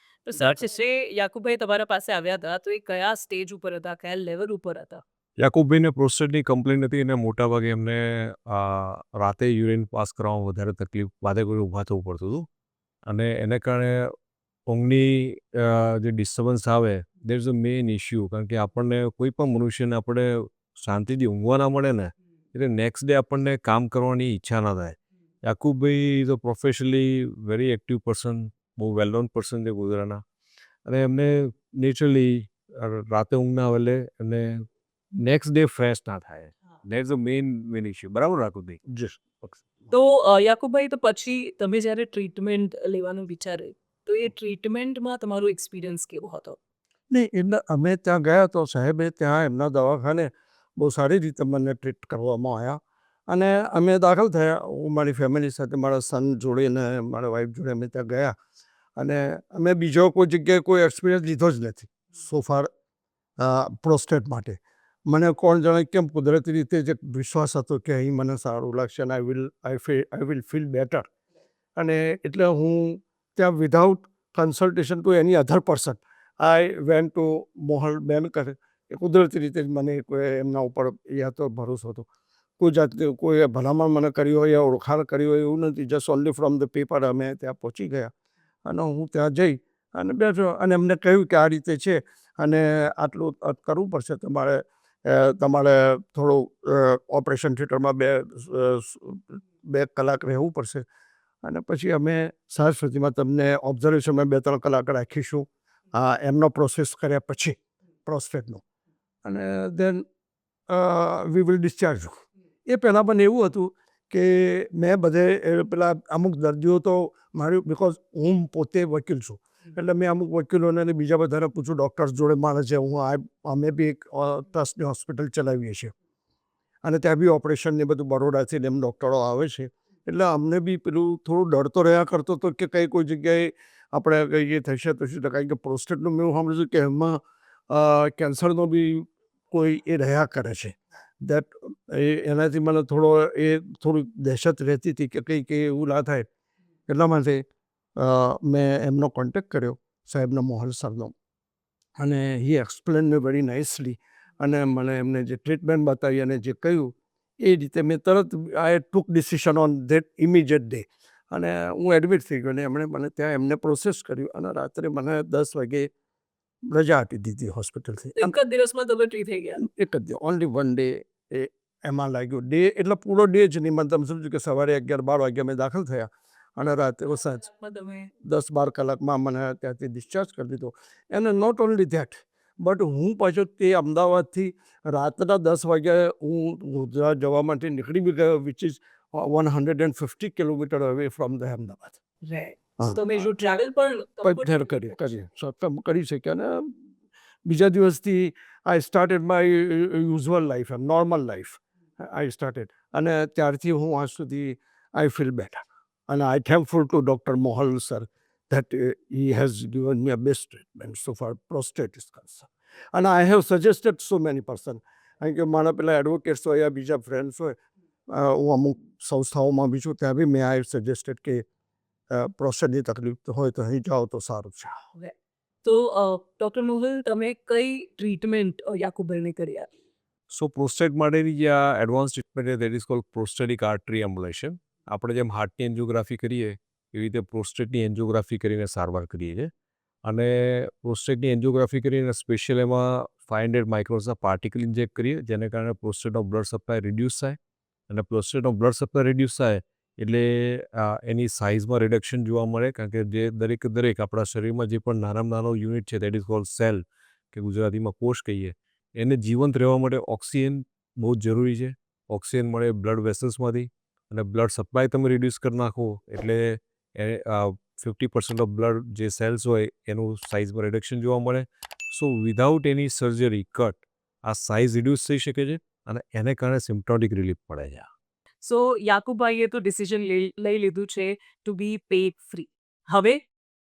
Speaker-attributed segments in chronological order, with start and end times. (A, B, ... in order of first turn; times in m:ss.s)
0:00.2-0:05.0 A
0:05.4-0:12.4 B
0:13.0-0:14.1 B
0:14.7-0:30.2 B
0:30.8-0:34.6 B
0:35.2-0:38.8 B
0:38.9-0:39.9 C
0:39.9-0:46.6 A
0:47.1-0:58.3 C
0:59.0-1:02.7 C
1:03.4-1:04.6 C
1:05.1-1:11.0 C
1:11.8-1:22.0 C
1:22.6-1:28.1 C
1:28.6-1:40.8 C
1:41.4-1:48.6 C
1:49.2-1:50.0 C
1:50.7-1:52.1 C
1:52.6-2:05.9 C
2:06.8-2:17.2 C
2:17.7-2:26.2 C
2:26.9-2:27.4 C
2:28.0-2:31.1 C
2:32.0-2:45.9 C
2:46.7-2:48.3 C
2:48.2-2:49.6 A
2:49.6-2:57.4 C
2:57.4-2:58.1 A
2:58.2-3:12.0 C
3:12.2-3:15.1 A
3:12.8-3:13.0 C
3:14.2-3:16.7 C
3:17.4-3:37.6 C
3:38.1-3:41.4 C
3:42.1-3:44.7 C
3:44.9-3:49.7 A
3:50.3-3:59.5 B
4:00.0-4:07.4 B
4:07.9-4:37.8 B
4:38.4-4:43.2 A